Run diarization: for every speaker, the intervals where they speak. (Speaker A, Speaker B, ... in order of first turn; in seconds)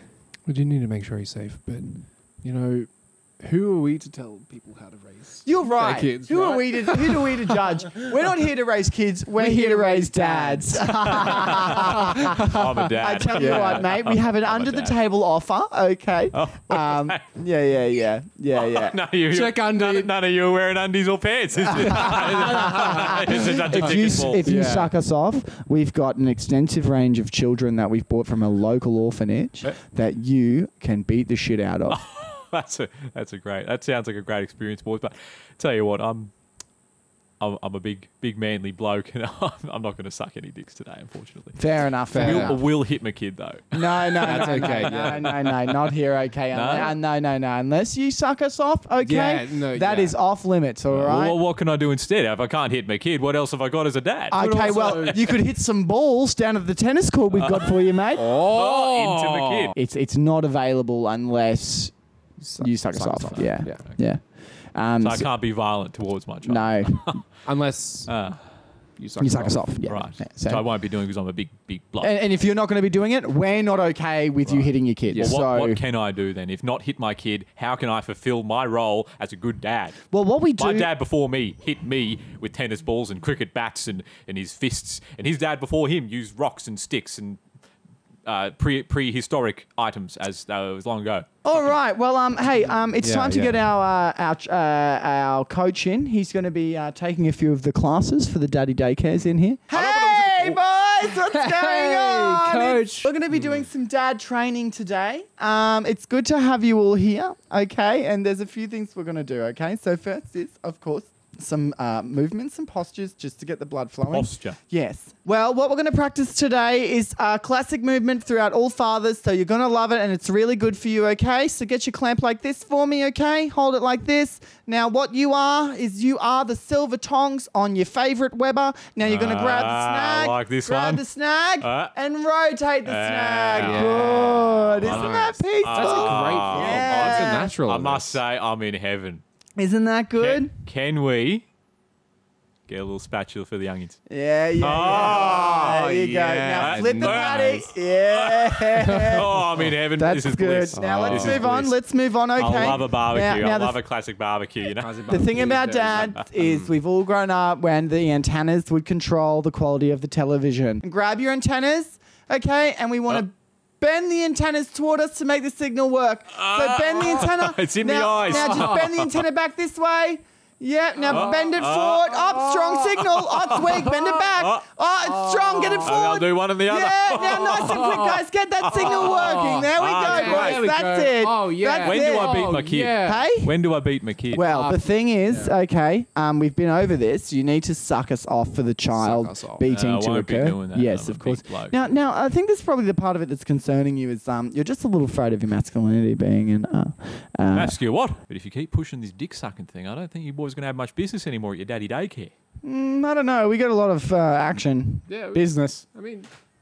Speaker A: 0.5-8.2, 9.4-12.6, 13.3-13.8, 19.3-20.1, 21.8-24.9, 42.1-42.6, 44.2-45.3, 49.0-50.2, 54.3-55.4, 58.2-59.8, 62.4-63.8, 67.4-68.3, 69.0-69.6, 75.1-75.4, 93.0-93.6, 101.0-103.1, 133.5-138.2, 144.9-147.5, 148.9-149.2, 150.8-151.4, 154.7-156.2, 171.1-171.4, 175.4-176.0, 177.7-178.1, 178.7-183.3, 184.4-185.6, 188.9-189.6, 205.1-206.3
Speaker B: 5.5-19.0, 21.8-32.0, 41.6-42.6, 43.7-51.4, 54.3-58.3, 59.8-62.0, 62.6-65.3, 66.5-67.2, 69.2-70.7, 72.0-75.8, 80.1-80.9, 91.4-137.6, 139.6-140.5, 144.1-153.8, 155.1-183.5, 184.3-197.8, 202.6-205.8
Speaker C: 10.8-14.9, 16.3-17.2, 18.5-24.5, 31.9-36.3, 37.4-41.6, 42.1-45.9, 46.5-47.0, 50.9-55.2, 58.5-59.8, 65.0-67.3, 68.1-68.5, 69.8-72.1, 74.5-80.0, 80.6-87.4, 88.3-91.7, 99.7-100.6, 114.1-114.6, 129.0-131.1, 131.6-131.9, 132.8-139.2, 140.2-141.4, 142.7-144.0, 144.6-151.7, 152.4-155.0, 156.0-156.7, 166.3-169.2, 171.1-174.6, 175.5-180.7, 181.8-184.5, 189.7-191.8, 197.5-202.3